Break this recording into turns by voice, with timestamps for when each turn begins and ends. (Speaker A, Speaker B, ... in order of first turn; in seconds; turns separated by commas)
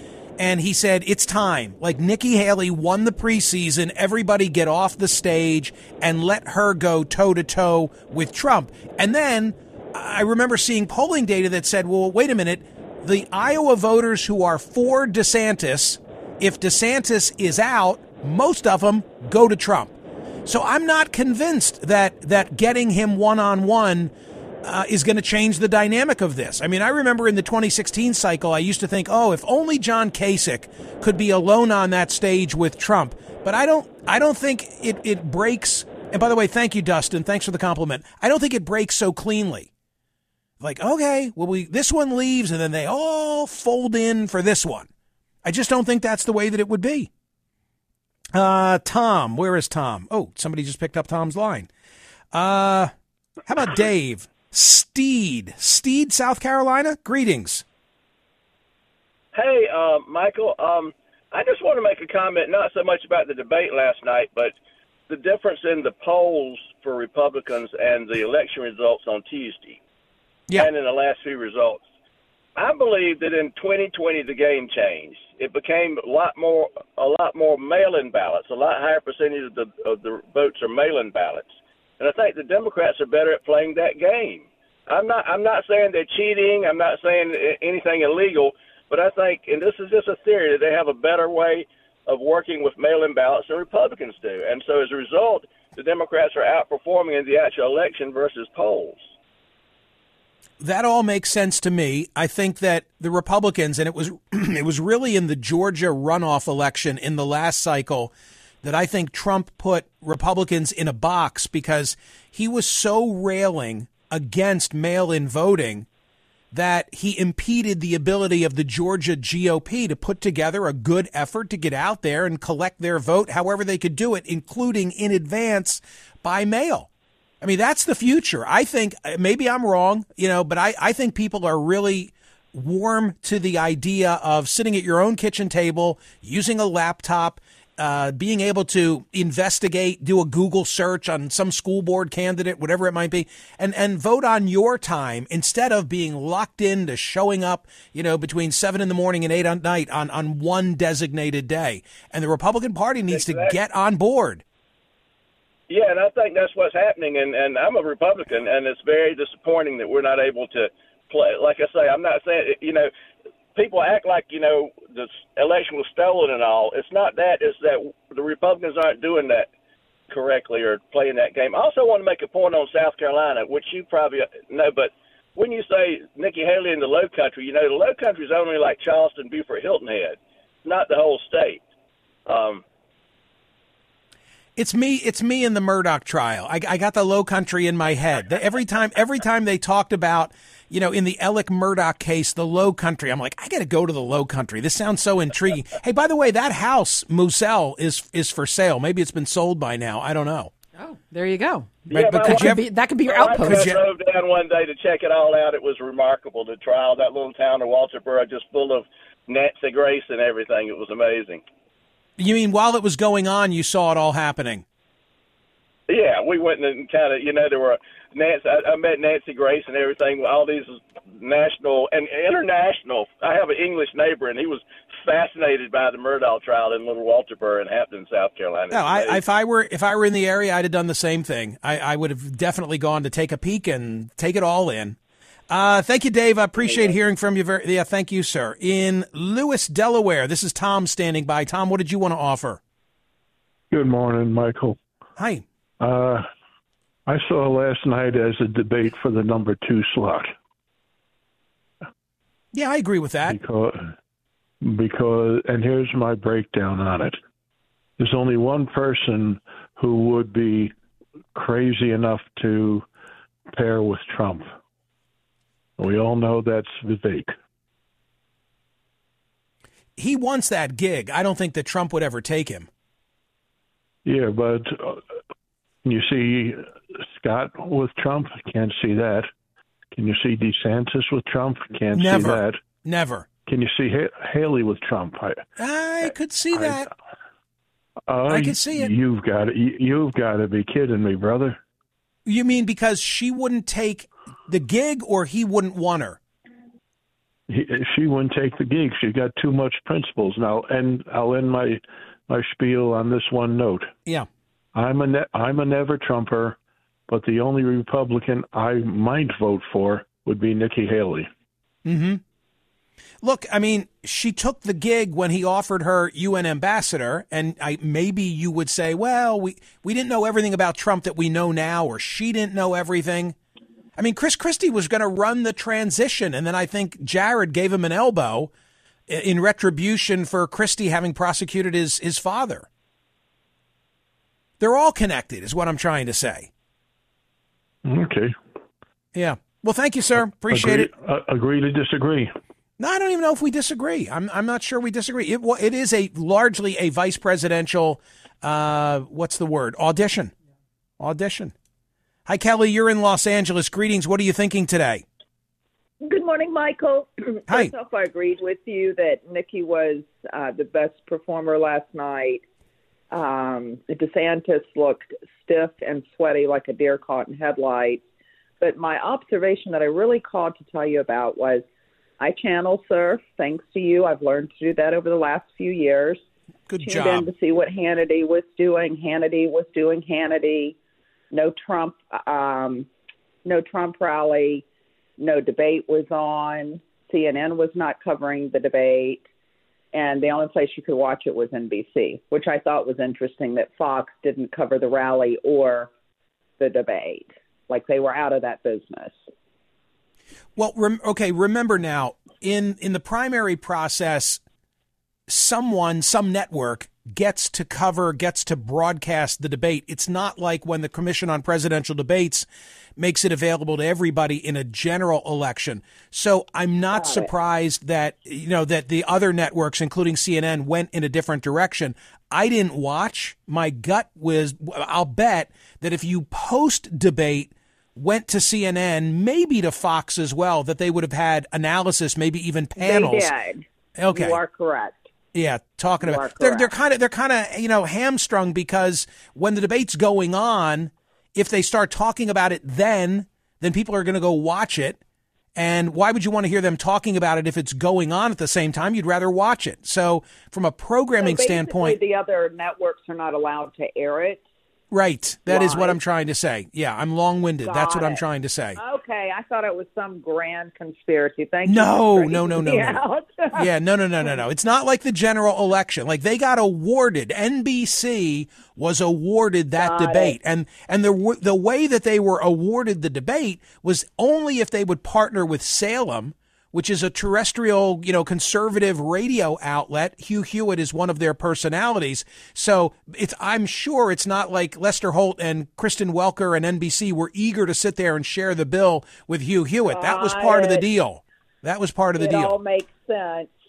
Speaker A: 0.4-19.9, Speaker A: 20.4-24.1, Speaker A: 24.6-39.7, Speaker A: 40.6-44.9, Speaker A: 45.4-47.1, Speaker A: 48.3-51.7, Speaker A: 52.3-52.9, Speaker A: 53.5-57.6, Speaker B: 59.3-64.5, Speaker B: 65.1-69.8, Speaker B: 70.5-71.8, Speaker B: 72.5-81.5, Speaker B: 82.0-99.1, Speaker A: 100.6-108.1, Speaker A: 108.6-115.8, Speaker A: 116.5-126.9, Speaker A: 127.4-154.4, Speaker B: 153.1-153.5, Speaker B: 155.7-162.9, Speaker B: 163.5-169.5, Speaker B: 170.1-181.6, Speaker B: 182.3-182.6, Speaker A: 184.6-200.5, Speaker C: 200.8-203.7, Speaker A: 201.9-202.7, Speaker B: 201.9-202.5, Speaker B: 203.1-211.4, Speaker A: 203.3-203.8, Speaker A: 212.2-214.6, Speaker B: 215.9-229.2, Speaker A: 228.7-235.0, Speaker A: 235.5-242.6, Speaker B: 236.6-236.9, Speaker D: 243.7-244.8, Speaker A: 245.2-245.4, Speaker D: 245.8-246.2, Speaker D: 247.1-250.3, Speaker A: 252.5-253.4, Speaker D: 253.3-253.9, Speaker D: 254.6-257.1, Speaker D: 258.0-260.7, Speaker D: 261.3-262.8, Speaker D: 263.5-264.5, Speaker D: 265.8-267.3, Speaker A: 270.0-272.7, Speaker D: 274.0-275.0, Speaker D: 275.8-279.3, Speaker D: 279.9-282.6, Speaker A: 281.9-283.3, Speaker D: 283.4-285.4, Speaker A: 285.6-286.9, Speaker D: 286.5-286.9, Speaker D: 288.1-291.6, Speaker A: 288.3-288.9, Speaker A: 292.2-296.2, Speaker D: 297.5-303.9, Speaker D: 304.7-306.6, Speaker D: 307.1-311.3, Speaker A: 311.8-312.2, Speaker A: 313.2-323.4, Speaker A: 324.0-328.5, Speaker A: 329.1-332.7, Speaker A: 334.6-336.5, Speaker D: 337.8-338.3, Speaker A: 339.1-340.9, Speaker D: 340.4-342.3, Speaker A: 342.8-350.3, Speaker A: 351.0-351.5, Speaker A: 352.3-355.0, Speaker E: 356.1-362.4, Speaker E: 363.1-368.0, Speaker E: 368.6-371.6, Speaker E: 372.2-376.2, Speaker A: 376.7-377.3, Speaker E: 376.8-380.8, Speaker E: 381.3-382.9, Speaker E: 383.4-384.6, Speaker E: 385.2-389.2, Speaker E: 389.9-395.9, Speaker E: 396.6-399.2, Speaker A: 400.6-404.4, Speaker A: 405.3-433.3, Speaker E: 416.9-417.3, Speaker E: 432.8-435.1, Speaker A: 433.9-434.4, Speaker A: 435.3-445.0, Speaker E: 436.0-436.7, Speaker A: 445.5-452.0, Speaker E: 451.2-454.4, Speaker A: 454.9-458.8, Speaker E: 455.5-456.0, Speaker E: 457.6-458.2, Speaker E: 458.8-463.7, Speaker A: 461.6-492.5, Speaker E: 469.8-470.3, Speaker E: 489.9-490.8, Speaker E: 492.1-493.5